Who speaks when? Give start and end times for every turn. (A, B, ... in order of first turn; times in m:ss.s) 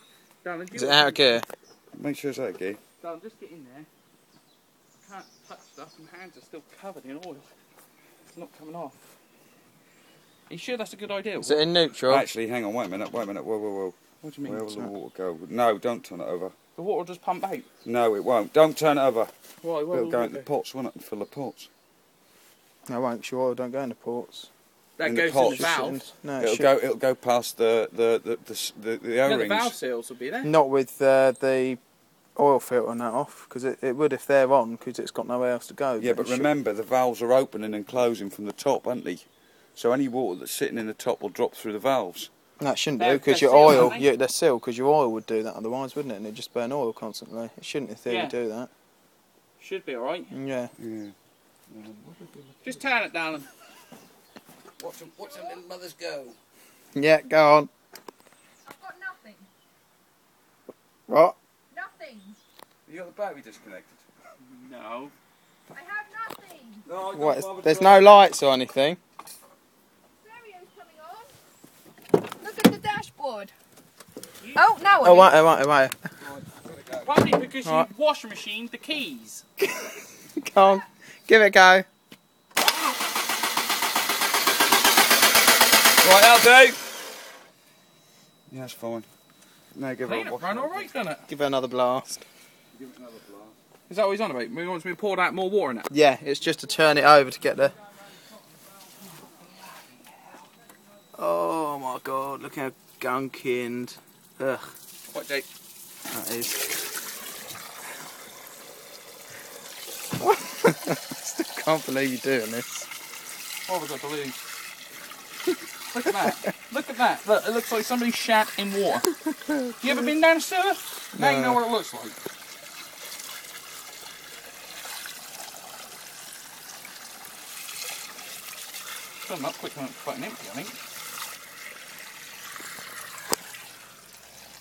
0:00.4-0:01.4 A
0:00.7-0:01.4 B
0:01.9-0:02.8 C
0:03.0-0:03.9 A
0:05.0-0:07.5 A
0:08.3-0:09.0 A
0:10.5-0:11.7 A
0:11.4-0:12.2 B
0:12.0-0:16.5 C
0:14.2-0:14.6 A
0:14.6-0:14.9 B
0:16.8-0:17.7 A
0:17.8-0:19.3 C
0:19.6-0:20.5 A
0:19.9-0:21.7 C
0:22.9-0:24.5 B
0:25.0-0:26.0 A
0:25.0-0:29.8 C
0:25.4-0:26.7 B
0:29.2-0:30.5 A
0:30.4-0:31.8 B
0:32.4-0:36.5 B
0:36.0-0:39.2 C
0:39.8-0:42.3 C
0:42.6-0:48.7 B
0:43.0-0:44.1 A
0:48.1-0:48.4 A
0:49.6-0:50.3 A
0:50.3-0:50.7 B
0:50.8-0:51.1 C
0:51.7-0:52.8 C
0:52.6-0:53.5 A
0:54.8-0:56.4 C
0:56.9-0:57.7 B
0:58.6-0:59.5 D
1:01.1-1:01.4 B
1:01.7-1:02.4 D
1:02.8-1:04.0 C
1:04.4-1:05.1 A
1:05.7-1:06.8 D
1:06.8-1:08.3 C
1:07.1-1:09.0 B
1:10.2-1:11.3 D
1:12.4-1:13.5 D
1:14.4-1:14.7 A
1:14.6-1:15.4 D
1:15.0-1:16.0 B
1:16.3-1:17.1 C
1:17.0-1:19.4 A
1:17.6-1:17.9 B
1:19.6-1:21.8 B
1:20.6-1:20.8 D
1:26.0-1:26.8 C
1:28.5-1:29.1 C
1:29.7-1:30.9 C
1:30.0-1:31.2 A
1:31.3-1:32.2 B
1:32.7-1:33.5 C
1:33.9-1:35.9 A
1:35.9-1:37.7 B
1:41.1-1:44.7 B
1:45.1-1:45.4 A
1:46.1-1:46.7 B
1:50.2-1:52.9 B
1:53.7-1:54.4 A
1:55.9-1:59.1 A
1:59.4-1:59.7 B
1:59.8-2:02.2 A
2:01.1-2:01.6 B
2:09.2-2:10.8 A